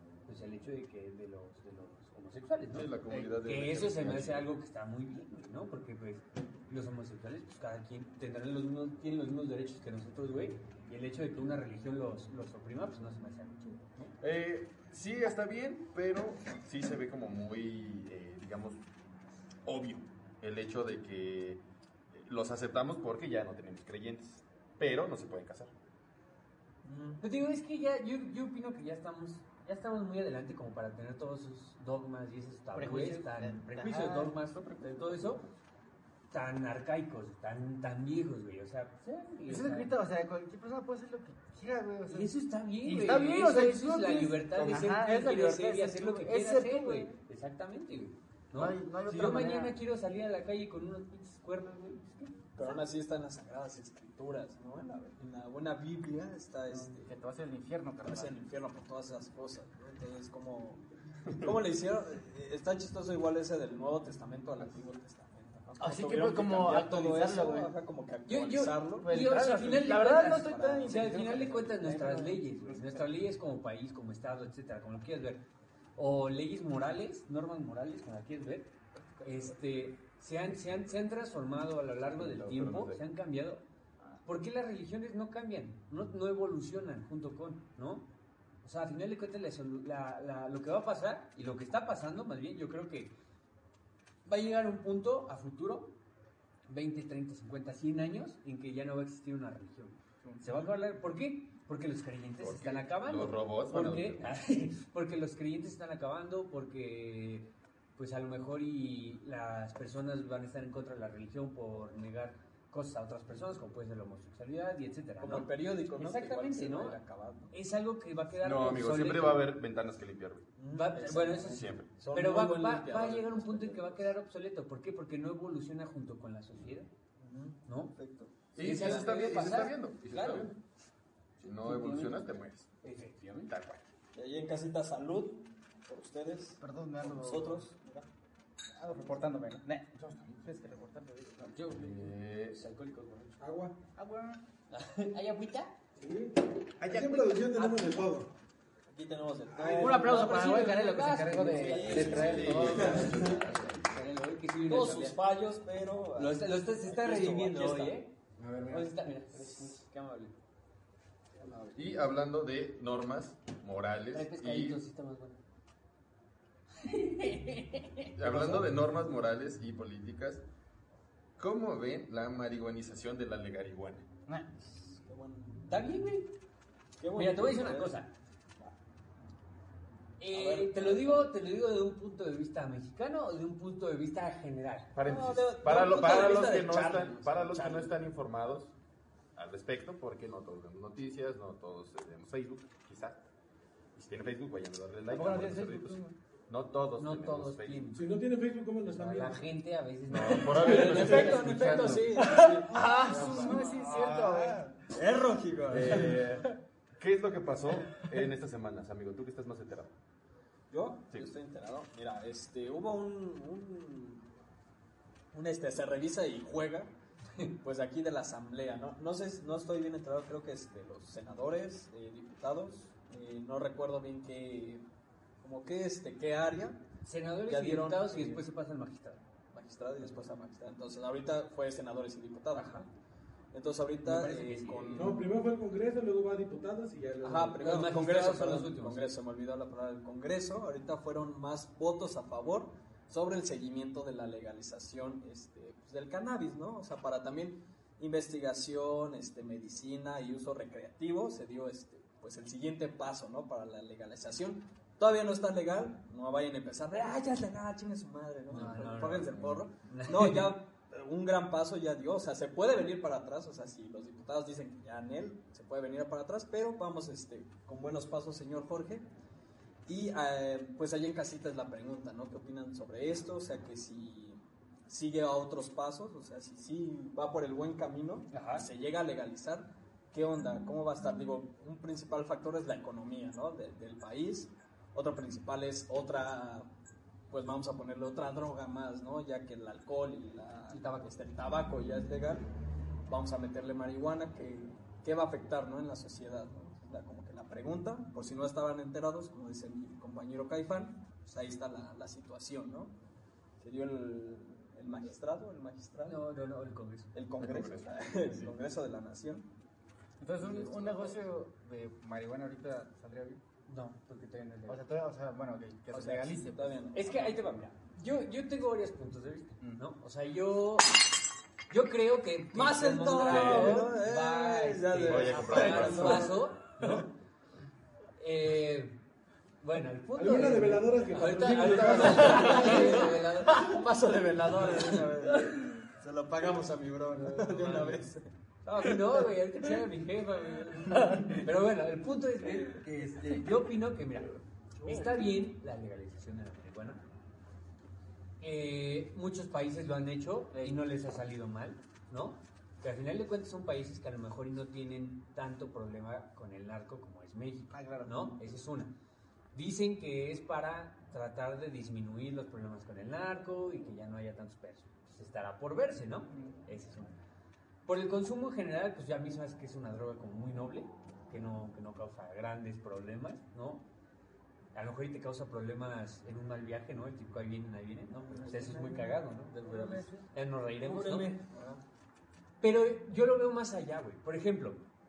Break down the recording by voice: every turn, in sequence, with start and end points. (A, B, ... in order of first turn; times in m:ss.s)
0:00.2-0:14.1 A
0:02.7-0:04.5 B
0:14.2-0:18.8 B
0:19.6-0:25.7 B
0:26.8-0:27.2 C
0:27.2-0:35.4 A
0:32.7-0:34.3 D
0:34.5-0:35.4 B
0:36.3-0:39.9 A
0:39.4-0:47.1 D
0:42.1-0:52.6 A
0:48.5-0:49.7 D
0:52.6-0:57.1 C
0:56.8-0:58.3 D
0:58.0-1:11.4 C
1:05.8-1:07.7 D
1:08.3-1:15.4 A
1:09.0-1:13.1 D
1:16.0-1:18.7 A
1:19.2-1:19.6 D
1:19.2-1:23.6 A
1:22.1-1:23.0 B
1:24.2-1:28.1 A
1:28.6-1:33.1 A
1:34.2-1:35.9 A
1:36.7-1:57.0 A
1:40.2-1:40.7 D
1:42.4-1:44.4 B
1:55.2-1:57.5 C
1:57.5-1:59.5 A
1:58.4-2:00.5 B
2:00.6-2:04.1 C
2:00.6-2:06.9 A
2:01.5-2:01.9 B
2:07.2-2:09.1 C
2:07.6-2:07.9 A
2:08.5-2:10.6 B
2:08.6-2:10.5 A
2:11.4-2:12.7 B
2:11.6-2:12.2 A
2:12.8-2:13.5 A
2:13.5-2:13.9 B
2:14.1-2:18.1 C
2:16.6-2:17.7 D
2:18.8-2:19.9 D
2:20.0-2:20.5 B
2:20.4-2:21.7 D
2:21.6-2:23.4 A
2:21.7-2:22.6 B
2:23.4-2:23.8 E
2:24.0-2:24.4 D
2:24.7-2:25.7 A
2:26.0-2:28.3 E
2:26.9-2:27.3 B
2:27.5-2:28.0 A
2:28.9-2:30.4 C
2:29.6-2:29.8 E
2:29.8-2:33.3 D
2:29.8-2:35.2 A
2:31.4-2:33.3 C
2:32.0-2:34.0 B
2:34.7-2:38.0 C
2:36.2-2:38.1 A
2:38.4-2:38.8 E
2:38.7-2:40.3 A
2:41.4-2:41.8 C
2:41.7-2:44.8 B
2:44.1-2:45.4 A
2:46.8-2:48.1 A
2:48.2-2:50.4 B
2:48.2-2:48.7 C
2:51.4-2:54.0 B
2:54.7-2:55.9 C
2:55.7-2:56.3 A
2:57.0-2:57.9 C
2:57.1-2:58.1 A
3:00.2-3:04.9 A
3:00.3-3:01.3 C
3:04.9-3:08.7 B
3:05.0-3:08.0 C
3:05.9-3:06.6 A
3:09.3-3:13.2 B
3:13.9-3:18.0 B
3:15.1-3:16.1 D
3:17.0-3:18.1 A
3:17.9-3:19.4 E
3:18.9-3:22.3 A
3:20.1-3:22.0 B
3:20.5-3:23.6 C
3:22.7-3:24.6 D
3:22.8-3:24.3 E
3:23.8-3:24.6 B
3:24.9-3:26.2 C
3:25.7-3:29.9 B
3:30.7-3:34.3 C
3:35.3-3:36.9 C
3:37.6-3:44.8 C
3:45.4-3:46.8 C
3:47.0-3:49.2 A
3:47.5-3:48.4 C
3:49.5-3:52.9 C
3:52.6-3:52.9 A
3:53.5-3:55.3 C
3:54.0-3:55.1 A
3:55.0-3:57.7 E
3:57.2-4:29.0 C
3:57.6-3:59.1 A
4:18.5-4:20.5 A
4:29.8-4:46.7 C
4:38.3-4:38.6 A
4:47.3-4:52.5 C
4:50.7-4:51.1 A
4:53.1-5:02.9 C
5:03.6-5:06.2 C
5:06.0-5:07.1 A
5:07.1-5:09.4 C
5:07.4-5:08.5 B
5:10.2-5:13.4 D
5:10.4-5:11.2 C
5:13.7-5:14.8 A
5:14.7-5:16.9 D
5:15.9-5:17.4 C
5:16.9-5:20.9 A
5:21.7-5:27.1 A
5:22.5-5:27.0 C
5:23.3-5:23.9 B
5:25.0-5:26.5 B
5:28.2-5:29.0 A
5:29.6-5:33.7 A
5:30.1-5:33.0 E
5:31.8-5:38.2 C
5:32.3-5:32.9 D
5:34.6-5:35.0 A
5:37.5-5:38.0 A
5:38.6-5:47.0 A
5:42.9-5:43.4 D
5:44.8-5:45.4 C
5:48.4-5:58.9 A
5:50.5-5:50.8 D
5:57.7-5:58.4 D
5:59.5-6:07.1 A
6:07.8-6:13.8 A
6:14.7-6:21.3 A
6:18.2-6:20.2 C
6:20.8-6:21.8 C
6:22.6-6:24.8 A